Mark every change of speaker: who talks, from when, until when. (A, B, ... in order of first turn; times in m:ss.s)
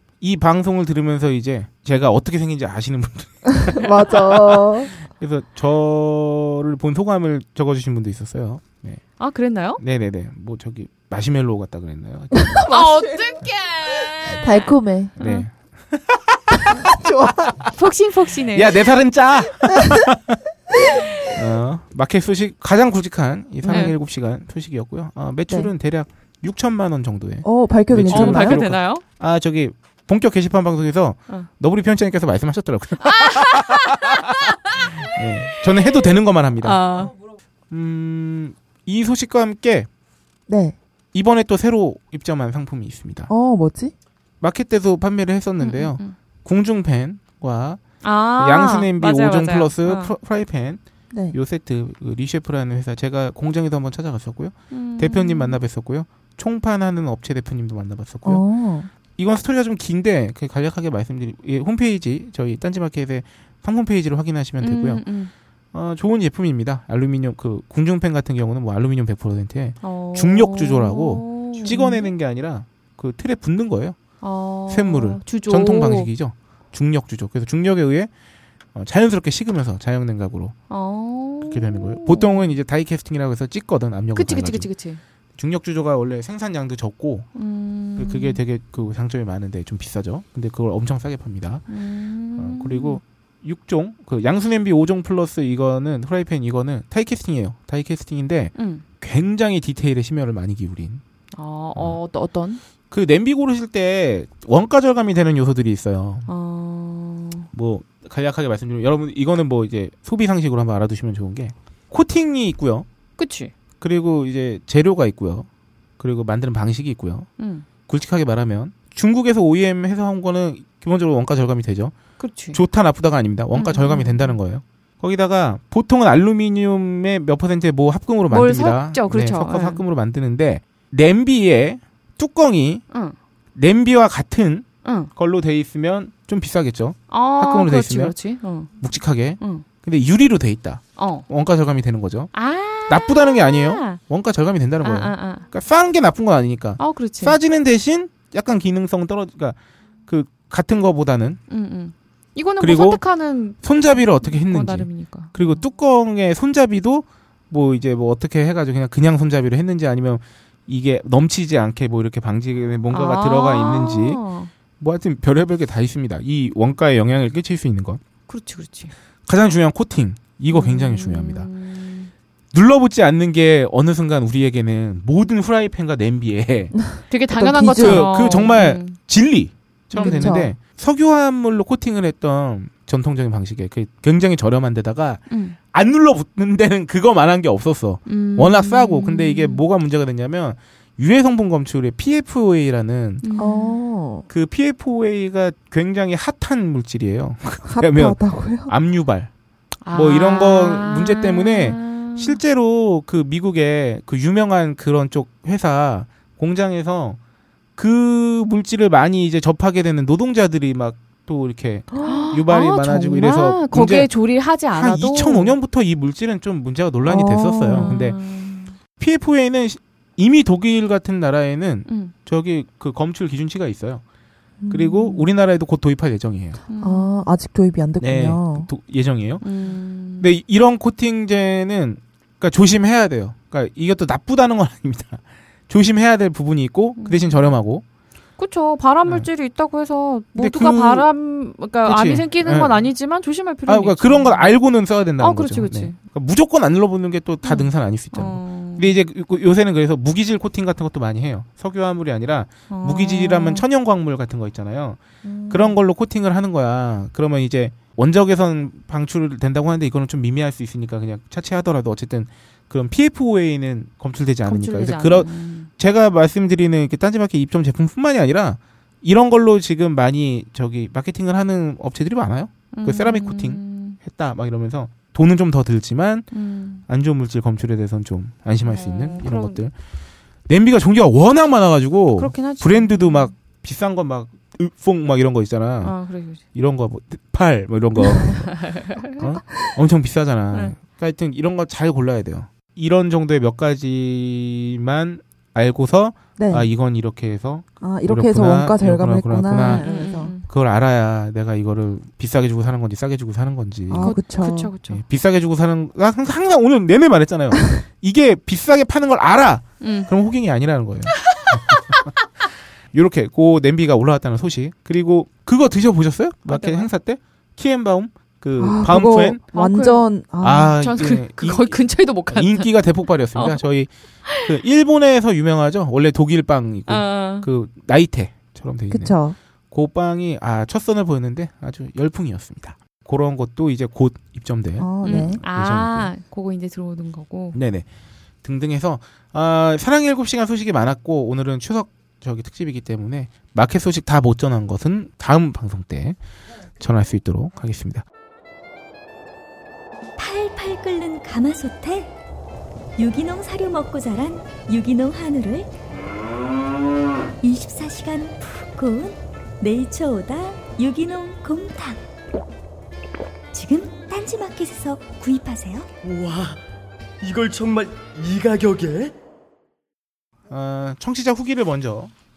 0:00.2-0:09.0 A
0:03.8-0:04.9 B
0:09.2-0:09.8 C
0:09.8-0:12.6 A
0:12.4-0:13.0 B
0:12.6-0:15.5 C
0:14.4-0:15.1 B
0:15.2-0:17.1 A
0:16.8-0:17.6 B
0:17.8-0:18.9 C
0:18.5-0:20.4 A
0:21.3-0:34.2 A
0:23.6-0:23.9 B
0:23.6-0:24.0 C
0:27.4-0:28.6 B
0:28.1-0:29.0 C
0:33.0-0:37.1 C
0:35.0-0:37.0 A
0:37.7-0:39.9 A
0:40.5-0:40.8 B
0:41.1-0:43.3 A
0:43.3-0:43.9 B
0:44.4-0:47.8 A
0:45.6-0:46.2 C
0:48.0-0:50.2 C
0:48.4-0:50.8 A
0:51.3-0:58.4 A
0:54.7-0:55.6 C
0:58.2-0:58.9 B
0:59.2-1:05.0 A
1:04.6-1:05.3 C
1:05.7-1:14.0 A
1:09.8-1:12.1 C
1:11.7-1:12.0 B
1:14.2-1:16.1 C
1:14.7-1:18.1 A
1:18.8-1:20.6 A
1:20.7-1:22.5 C
1:21.4-1:24.7 A
1:24.1-1:25.0 C
1:25.4-1:27.3 A
1:27.4-1:28.4 C
1:28.0-1:31.7 A
1:31.7-1:33.0 C
1:32.4-1:41.0 A
1:38.6-1:38.8 C
1:41.3-1:42.6 C
1:42.9-1:46.3 A
1:46.3-1:47.5 C
1:47.5-1:52.9 A
1:53.2-1:53.5 C
1:53.8-1:55.5 A
1:56.0-1:57.3 A
1:57.4-1:57.7 C
1:57.9-2:01.9 A
2:02.2-2:02.6 C
2:02.5-2:12.8 A
2:03.5-2:04.4 C
2:08.3-2:09.8 C
2:12.9-2:13.2 C
2:13.6-2:18.2 A
2:14.8-2:15.1 C
2:17.1-2:18.8 C
2:18.8-2:22.3 A
2:19.4-2:19.7 C
2:21.0-2:21.3 C
2:22.3-2:24.0 C
2:22.9-2:29.6 A
2:24.8-2:25.5 C
2:26.8-2:27.4 C
2:30.1-2:31.4 A
2:31.5-2:33.6 C
2:32.6-2:33.0 A
2:33.6-2:44.2 A
2:34.2-2:35.6 C
2:42.9-2:44.5 C
2:44.8-2:48.0 A
2:48.3-2:48.9 C
2:49.3-2:51.5 A
2:50.5-2:52.1 C
2:52.5-2:56.7 A
2:56.9-2:58.1 B
2:57.1-2:59.0 C
2:57.8-3:13.3 A
3:00.0-3:00.4 C
3:00.0-3:00.5 B
3:05.3-3:05.6 C
3:08.1-3:09.6 C
3:13.2-3:13.8 C
3:13.4-3:14.2 B
3:14.3-3:19.3 A
3:17.6-3:18.7 B
3:19.8-3:22.4 C
3:19.9-3:27.2 A
3:27.8-3:34.1 A
3:32.0-3:35.6 C
3:34.6-3:38.2 A
3:37.0-3:37.9 B
3:37.7-3:38.7 C
3:39.0-3:44.0 A
3:41.9-3:42.1 C
3:44.6-3:45.2 B
3:44.7-3:46.6 A
3:46.7-3:47.1 C
3:46.8-3:48.7 B
3:48.0-3:49.5 A
3:49.4-3:50.3 C
3:50.2-3:57.8 A
3:57.0-3:57.4 C
3:58.4-4:04.5 C
4:00.4-4:01.1 A
4:01.8-4:02.8 A
4:03.7-4:15.0 A
4:05.2-4:06.0 C
4:07.4-4:09.0 C
4:12.7-4:13.7 C
4:15.2-4:15.8 B
4:15.5-4:36.3 A
4:24.4-4:25.7 C
4:32.7-4:34.0 C
4:36.3-4:36.8 C
4:36.9-4:39.7 A
4:38.7-4:39.6 C
4:40.5-4:46.0 A
4:42.2-4:43.3 C
4:45.8-4:46.4 C
4:46.5-4:48.6 A
4:48.1-4:49.2 C
4:49.2-5:04.2 A
4:56.4-4:56.7 B
4:57.8-5:00.4 B
4:59.6-5:00.4 C
5:03.9-5:04.7 B
5:04.0-5:05.0 C
5:04.9-5:12.0 A
5:09.8-5:10.1 C
5:11.3-5:12.0 C
5:12.9-5:19.4 A
5:16.5-5:16.9 C
5:18.6-5:20.8 B
5:19.5-5:20.0 C
5:20.4-5:29.2 A
5:20.8-5:22.7 C
5:23.4-5:23.6 C
5:26.9-5:27.5 C
5:28.9-5:29.4 B
5:29.7-5:36.1 A
5:34.8-5:35.4 B
5:35.0-5:37.6 C
5:37.5-5:37.8 A
5:38.4-5:46.2 A
5:46.8-5:48.0 A
5:50.2-5:52.1 D
5:53.0-5:55.7 D
5:57.4-6:02.0 D
6:03.5-6:05.9 D
6:06.0-6:06.6 E
6:07.2-6:09.1 E
6:10.5-6:12.1 A